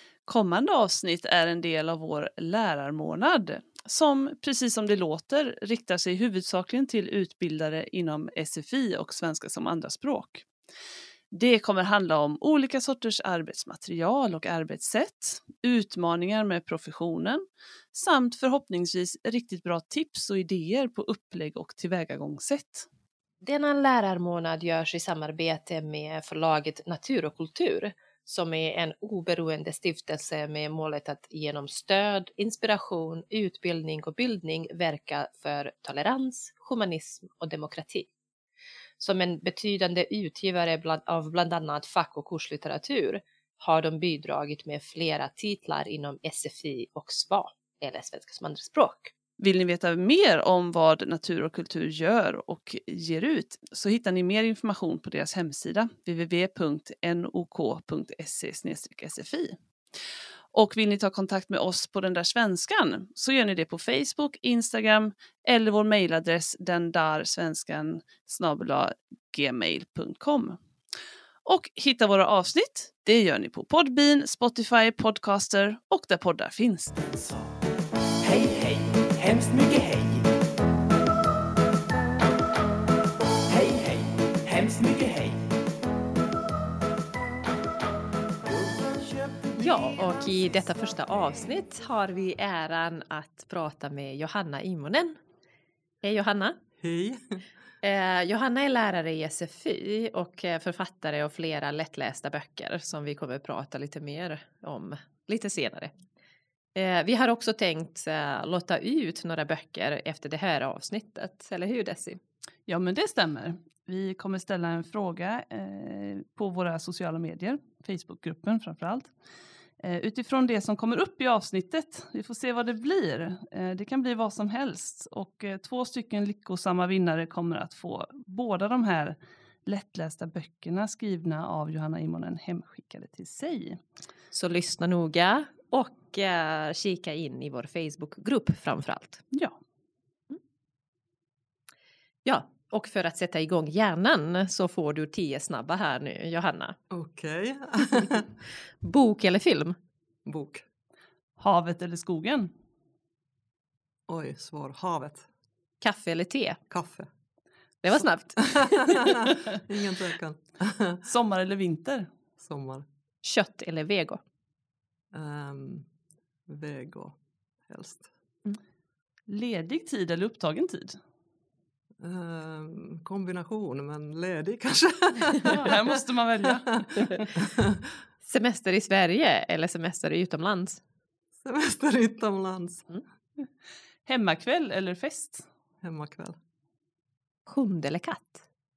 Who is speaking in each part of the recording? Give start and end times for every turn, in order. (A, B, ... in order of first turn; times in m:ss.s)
0:00.3-0:10.5 A
0:11.3-0:22.9 A
0:23.4-0:38.1 B
0:39.0-0:49.1 B
0:49.4-0:59.6 A
1:00.5-1:10.6 A
1:11.4-1:17.2 A
1:17.2-1:17.5 C
1:18.2-1:20.3 C
1:23.5-1:25.5 C
1:28.4-1:30.0 C
1:29.6-1:35.2 B
1:36.0-1:36.6 B
1:36.8-1:37.4 D
1:37.8-1:45.9 B
1:46.8-1:52.2 B
1:52.7-1:59.1 A
1:59.8-2:13.8 A
2:14.3-2:19.2 B
2:22.2-2:26.8 B
2:26.9-2:28.3 D
2:27.8-2:28.2 B
2:28.8-2:29.8 B
2:30.3-2:30.6 D
2:31.4-2:32.5 A
2:34.1-2:35.3 D
2:35.8-2:36.6 B
2:36.7-2:37.1 D
2:37.8-2:39.4 B
2:37.9-2:41.0 D
2:41.0-2:42.1 A
2:42.4-2:42.9 D
2:43.2-2:44.2 B
2:45.1-2:45.9 D
2:46.5-2:48.1 D
2:49.3-2:51.0 A
2:52.0-2:57.9 D
2:55.5-2:57.3 A
2:58.2-3:00.8 B
3:01.4-3:02.9 D
3:04.1-3:05.5 A
3:05.8-3:06.4 D
3:07.5-3:08.4 B